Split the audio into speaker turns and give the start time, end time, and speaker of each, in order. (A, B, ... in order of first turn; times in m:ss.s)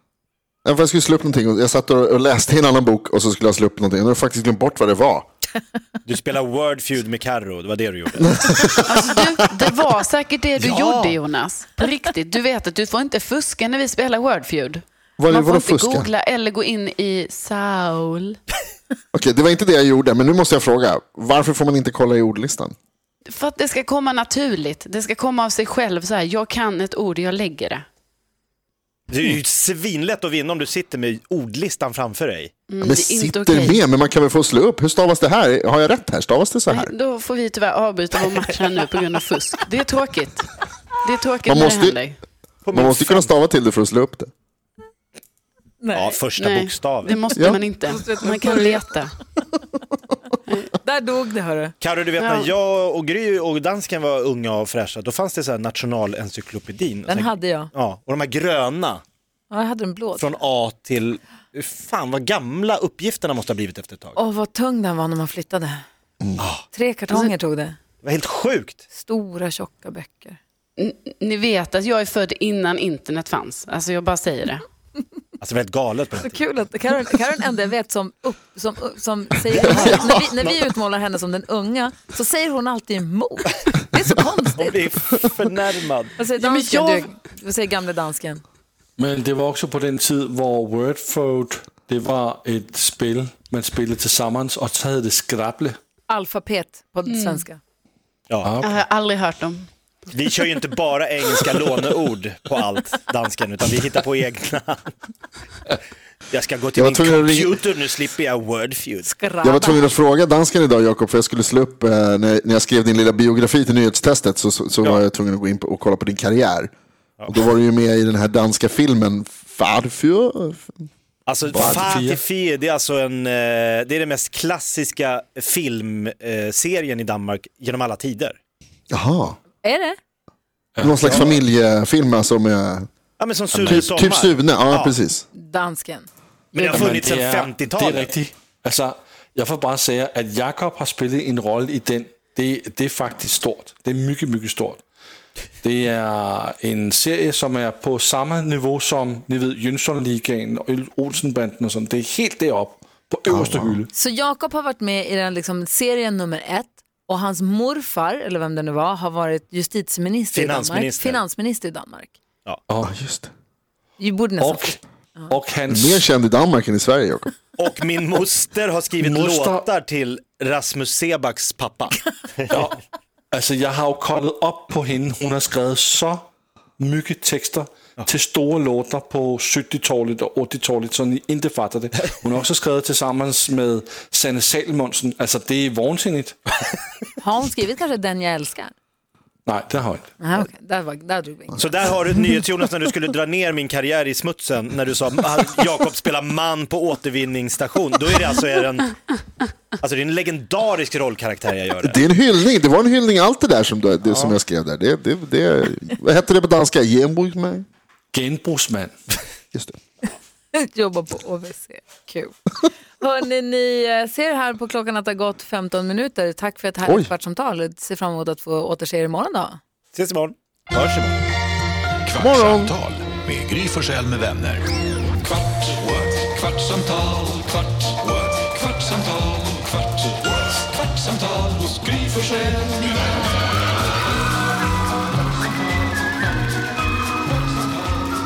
0:00.6-0:05.3 A
0:06.1-0:08.5 B
0:08.2-0:09.3 A
0:08.9-0:18.4 C
0:10.6-0:11.2 B
0:15.2-0:16.1 A
0:19.1-0:22.8 A
0:23.2-0:27.8 C
0:29.1-0:32.5 B
0:32.7-0:33.8 C
0:32.8-0:36.9 A
0:36.7-0:42.2 C
0:41.4-0:42.0 A
0:42.7-0:43.3 B
0:42.7-0:44.3 A
0:45.8-0:46.2 D
0:45.9-0:47.2 B
0:46.4-0:49.1 C
0:47.4-0:47.6 A
0:47.8-0:48.8 D
0:50.7-0:51.7 D
0:51.8-0:59.0 B
0:52.2-0:52.5 C
0:57.1-0:57.7 D
0:59.5-1:00.4 D
1:00.2-1:04.2 B
1:04.2-1:05.8 D
1:06.4-1:06.6 B
1:06.7-1:07.8 D
1:08.0-1:08.8 B
1:08.9-1:10.4 D
1:10.8-1:14.6 C
1:15.4-1:16.4 B
1:16.2-1:24.8 D
1:19.6-1:20.5 A
1:24.6-1:26.1 B
1:26.2-1:28.4 D
1:26.4-1:27.1 C
1:29.0-1:35.8 E
1:36.1-1:37.6 D
1:37.1-1:37.4 C
1:38.3-1:38.6 B
1:38.4-1:38.7 E
1:38.6-1:39.7 C
1:40.1-1:44.9 B
1:46.3-1:49.1 B
1:46.8-1:47.6 A
1:49.0-1:49.9 D
1:49.4-1:56.7 A
1:57.3-2:00.8 A
2:01.3-2:08.4 B
2:01.5-2:02.2 E
2:08.9-2:09.4 A
2:09.6-2:10.0 D
2:10.8-2:11.4 E
2:10.8-2:12.9 A
2:11.0-2:11.3 B
2:13.2-2:15.0 B
2:13.6-2:13.8 E
2:13.6-2:15.3 A
2:15.3-2:16.1 D
2:16.5-2:18.1 B
2:16.6-2:16.9 C
2:16.6-2:24.8 E
2:25.6-2:33.9 E
2:33.3-2:33.8 A
2:33.9-2:42.2 D
2:40.3-2:41.2 B
2:42.7-2:42.9 E
2:42.8-2:43.3 A
2:44.0-2:44.8 D
2:44.4-2:44.8 E
2:45.3-2:46.0 E
2:45.7-2:47.3 A
2:47.6-2:52.6 B
2:49.0-2:49.7 E
2:52.5-2:52.8 E
2:53.3-2:56.2 E
2:56.8-3:06.6 E
3:07.2-3:08.7 D
3:09.5-3:10.1 E
3:10.2-3:12.0 D
3:11.6-3:19.2 B
3:19.8-3:22.0 B
3:21.8-3:27.7 A
3:24.1-3:24.4 B
3:28.1-3:28.9 E
3:30.5-3:32.4 D
3:33.0-3:39.6 D
3:36.8-3:37.1 A
3:39.9-3:41.2 B
3:42.0-3:44.7 F
3:42.2-3:42.8 A
3:45.2-3:53.0 E